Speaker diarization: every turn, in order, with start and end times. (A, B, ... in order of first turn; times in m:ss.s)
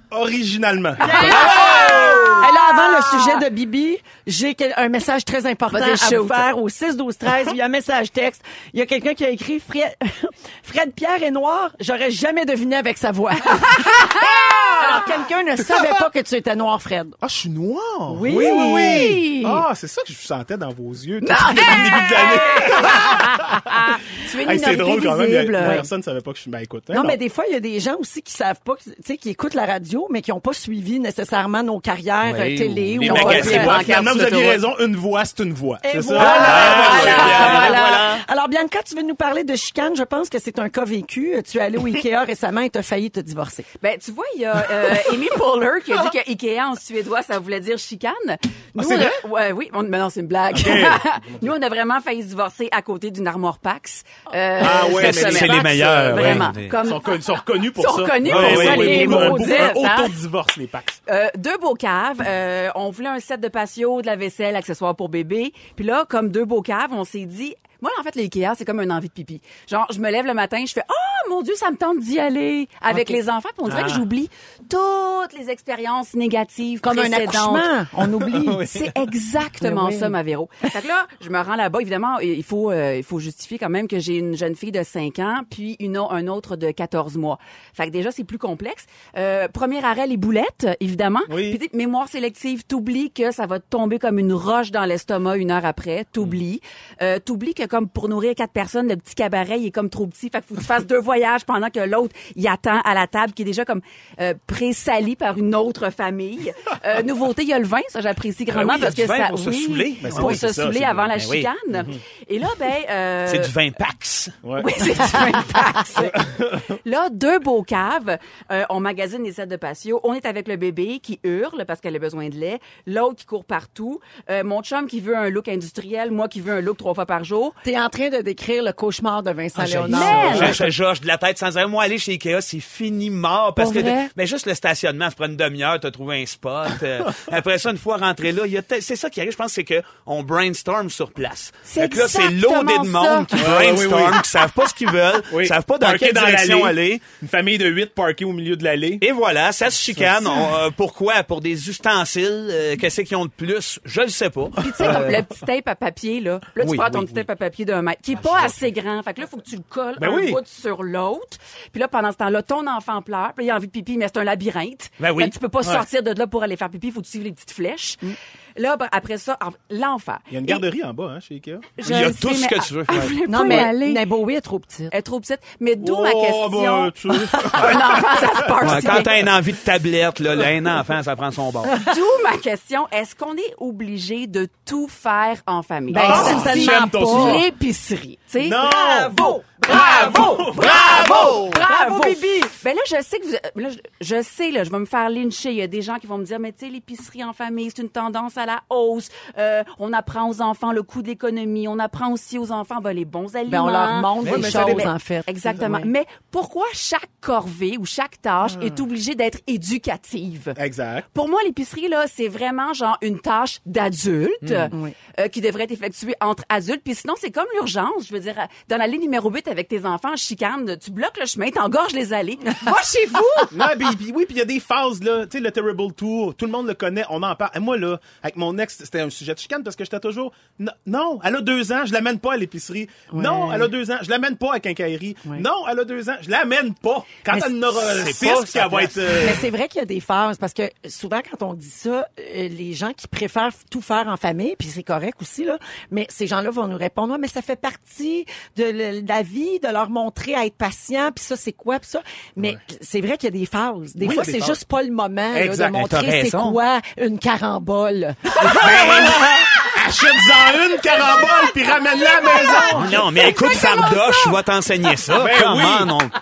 0:00.1-0:01.8 A
0:01.0-0:03.4 B
0:01.0-0:17.2 C
0:05.7-0:06.5 B
0:14.4-0:14.8 A
0:17.2-0:23.7 A
0:18.1-0:19.3 C
0:18.3-0:19.6 B
0:21.2-0:25.8 B
0:24.4-0:27.2 A
0:25.6-0:25.8 C
0:26.9-0:33.8 C
0:32.2-0:33.8 D
0:33.0-0:34.6 B
0:33.1-0:37.7 A
0:35.8-0:43.7 C
0:36.2-0:38.2 D
0:36.2-0:37.9 B
0:43.8-0:57.2 B
0:48.8-0:49.2 A
0:50.5-0:51.5 A
0:54.6-1:01.0 A
0:54.8-0:56.7 D
0:57.8-1:00.2 B
0:58.2-0:58.9 D
0:58.4-0:59.8 C
1:01.1-1:17.7 B
1:12.9-1:13.2 C
1:13.7-1:14.0 A
1:16.8-1:18.7 C
1:18.2-1:18.9 A
1:18.6-1:53.6 B
1:19.6-1:20.2 C
1:31.3-1:31.6 A
1:48.5-1:50.4 D
1:50.0-1:51.1 A
1:51.1-1:51.5 D
1:53.3-1:54.4 D
1:54.4-1:54.7 A
1:54.6-2:07.6 B
1:56.0-1:56.7 A
2:07.6-2:10.7 C
2:09.6-2:10.5 A
2:09.7-2:27.0 D
2:09.9-2:10.6 B
2:13.6-2:14.1 B
2:21.7-2:23.7 B
2:23.4-2:24.2 A
2:25.3-2:29.0 A
2:29.0-2:35.2 D
2:30.0-2:30.4 A
2:34.6-2:50.6 B
2:36.6-2:37.1 D
2:40.0-2:40.4 A
2:45.0-2:45.4 D
2:50.3-2:51.7 A
2:51.8-2:54.1 B
2:51.8-2:53.1 D
2:53.0-2:53.6 A
2:53.2-2:54.9 C
2:54.9-2:59.3 B
2:55.8-2:58.9 A
2:58.6-3:01.8 D
3:01.8-3:08.6 B
3:05.9-3:07.4 C
3:05.9-3:07.4 A
3:08.4-3:11.6 A
3:08.6-3:12.5 C
3:09.7-3:30.6 B
3:23.5-3:25.9 C
3:24.3-3:24.6 D
3:24.3-3:24.9 A
3:30.6-3:31.1 A
3:31.1-3:43.6 B
3:34.4-3:34.7 D
3:43.5-3:59.5 A
3:53.1-3:53.7 C
3:57.3-3:58.2 C
3:57.8-3:59.0 D
3:59.1-4:19.3 C
4:14.0-4:14.6 A
4:15.3-4:15.9 A
4:15.8-4:16.6 D
4:18.4-4:23.1 A
4:22.7-4:26.1 D
4:25.1-4:26.0 A